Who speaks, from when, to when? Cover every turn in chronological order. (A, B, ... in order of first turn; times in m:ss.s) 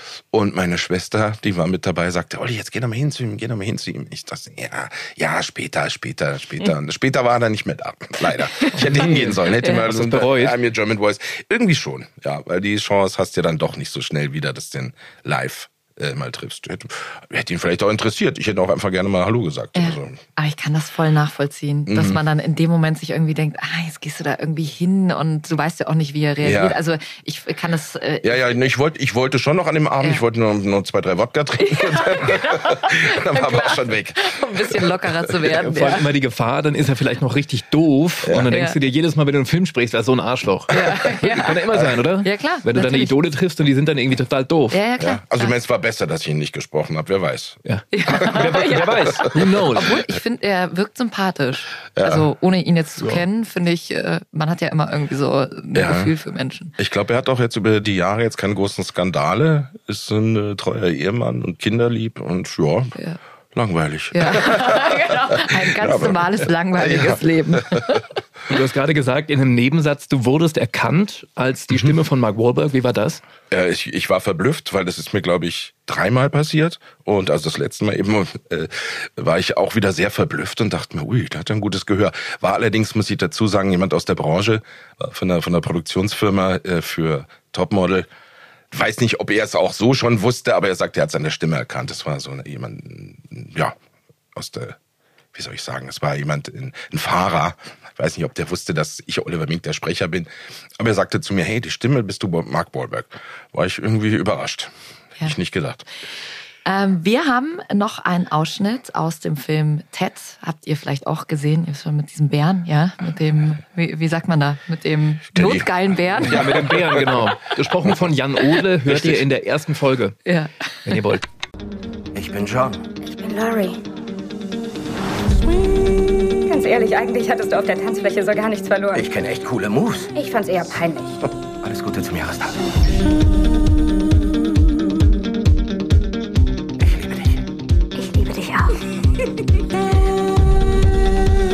0:00.3-0:20.2 A
0:08.8-0:10.6 B
0:19.8-0:28.5 C
0:21.9-0:22.2 A
0:26.4-0:26.8 A
0:28.2-0:35.7 A
0:31.6-0:36.1 C
0:35.7-0:44.8 B
0:38.5-0:38.8 C
0:40.7-0:41.6 C
0:42.2-0:43.1 C
0:44.7-0:45.5 C
0:45.0-0:47.6 A
0:47.6-0:50.0 B
0:47.9-0:56.7 C
0:52.0-0:52.2 A
0:55.7-0:56.1 A
0:56.8-1:03.0 A
1:03.5-1:08.0 A
1:04.1-1:08.0 C
1:08.5-1:13.2 B
1:13.5-1:28.1 A
1:28.7-1:33.8 A
1:34.4-1:34.8 A
1:35.3-1:45.9 A
1:46.6-1:56.6 C
1:55.3-1:57.1 A
1:56.2-2:00.2 B
1:58.8-1:59.2 A
2:00.3-2:01.0 C
2:00.9-2:01.2 B
2:02.2-2:02.8 D
2:03.0-2:03.8 E
2:06.5-2:09.1 E
2:09.0-2:10.1 D
2:10.1-2:11.2 E
2:11.6-2:12.5 D
2:18.0-2:18.8 E